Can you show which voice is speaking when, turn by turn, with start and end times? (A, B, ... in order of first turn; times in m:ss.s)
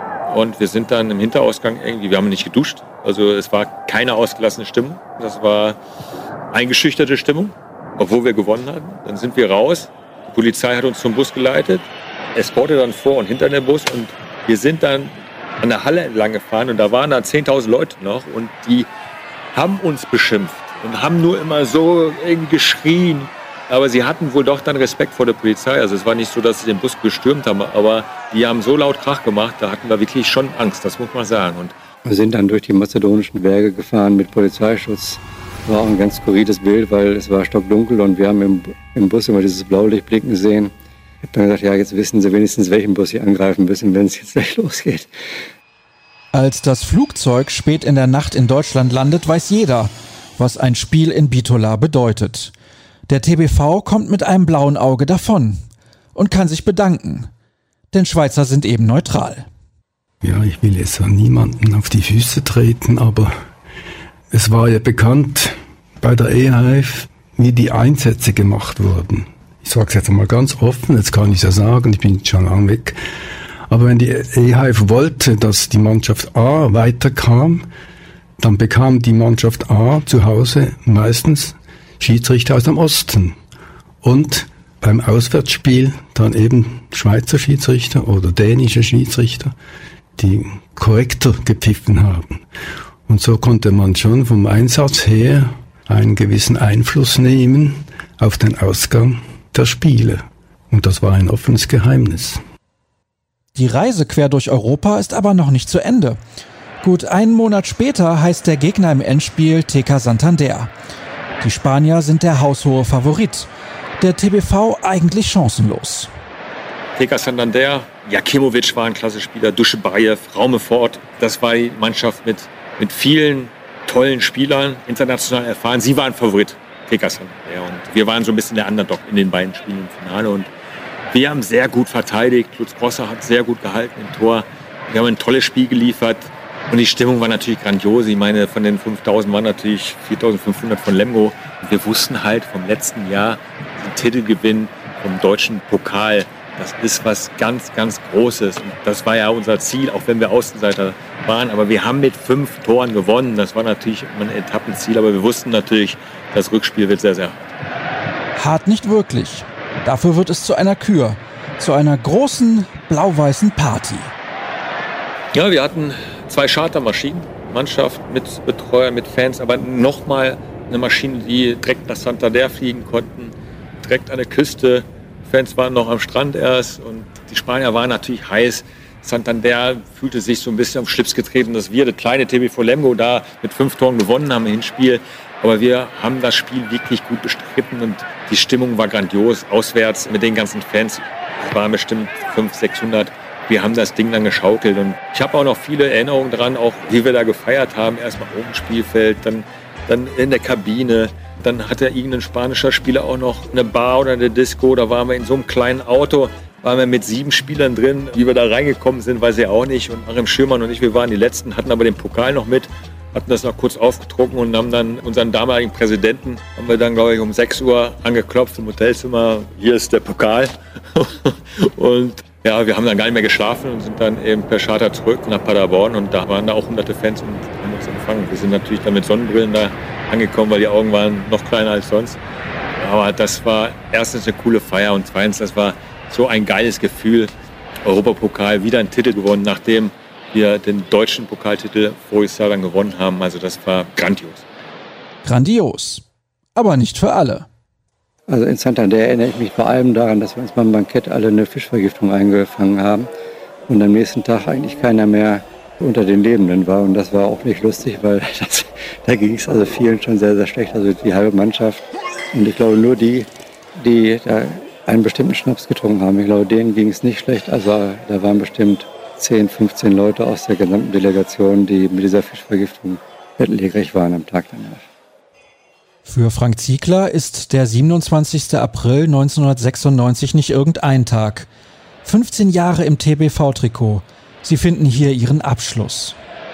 0:00.3-0:05.8 A
0:06.5-0:18.9 A
0:19.5-0:31.7 A
0:32.0-0:45.1 B
0:46.3-0:52.5 C
0:53.1-0:55.6 C
0:56.1-0:57.3 C
0:57.9-0:59.5 C
1:00.2-1:03.3 D
1:04.3-1:13.0 D
1:13.7-1:17.7 D
1:18.4-1:23.4 D
1:24.0-1:29.5 D
1:30.2-1:32.4 D
1:33.1-1:42.4 D
1:43.5-1:46.2 C
1:46.8-1:50.7 C
1:51.4-1:53.5 C
1:54.0-1:56.1 C
1:57.0-2:10.5 A
2:11.1-2:37.4 A
2:38.4-2:44.1 C
2:45.3-3:52.2 A
3:52.8-3:57.3 A
3:57.8-4:04.4 A
4:05.2-4:06.0 C
4:06.6-4:07.5 C
4:08.3-4:13.1 B
4:13.7-4:34.8 B
4:36.0-4:41.5 C
4:42.0-4:46.2 C